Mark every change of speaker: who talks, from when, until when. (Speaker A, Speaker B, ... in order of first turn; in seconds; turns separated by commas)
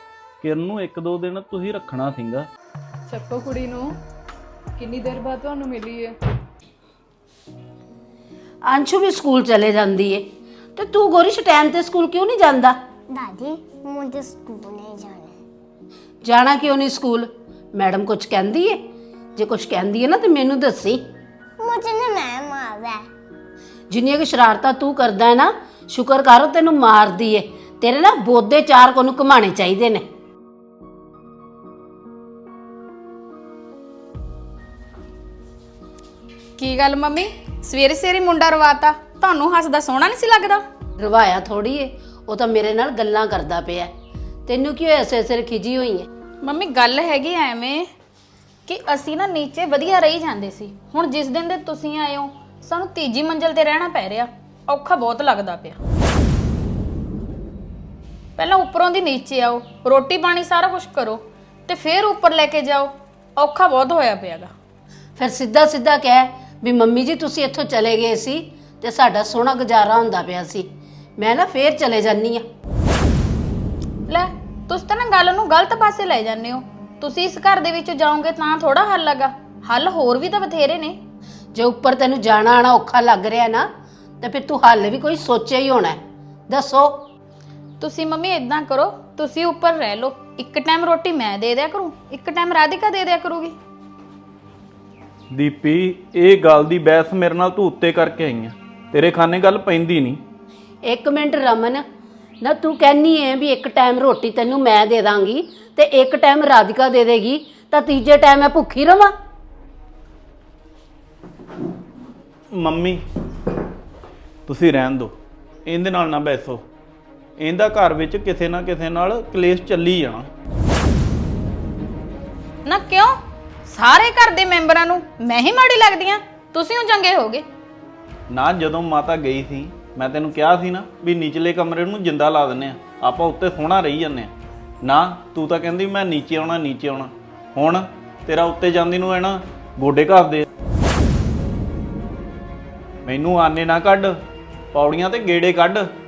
Speaker A: 0.4-2.5, Speaker B: 3.1-3.9, Speaker B: 4.8-6.2, Speaker C: 8.7-10.2, Speaker C: 10.8-12.8, Speaker D: 13.1-15.3, Speaker C: 16.2-18.8, Speaker C: 19.4-21.0, Speaker D: 21.6-23.0, Speaker C: 23.9-30.0, Speaker E: 36.6-40.6, Speaker C: 41.0-43.9, Speaker C: 44.5-46.1, Speaker E: 46.4-47.9, Speaker E: 48.7-55.8, Speaker E: 58.4-64.5, Speaker C: 65.2-70.7, Speaker C: 71.2-72.5, Speaker E: 74.1-81.0, Speaker C: 81.5-83.7, Speaker C: 84.2-87.0, Speaker E: 87.8-93.5, Speaker A: 95.3-100.2, Speaker C: 100.8-101.8, Speaker C: 102.4-109.1, Speaker A: 112.5-113.0, Speaker A: 114.5-115.1, Speaker A: 115.7-116.6, Speaker A: 117.4-120.3, Speaker E: 122.6-127.5, Speaker A: 128.3-134.3, Speaker A: 134.8-140.4, Speaker A: 143.0-144.1, Speaker A: 144.7-145.8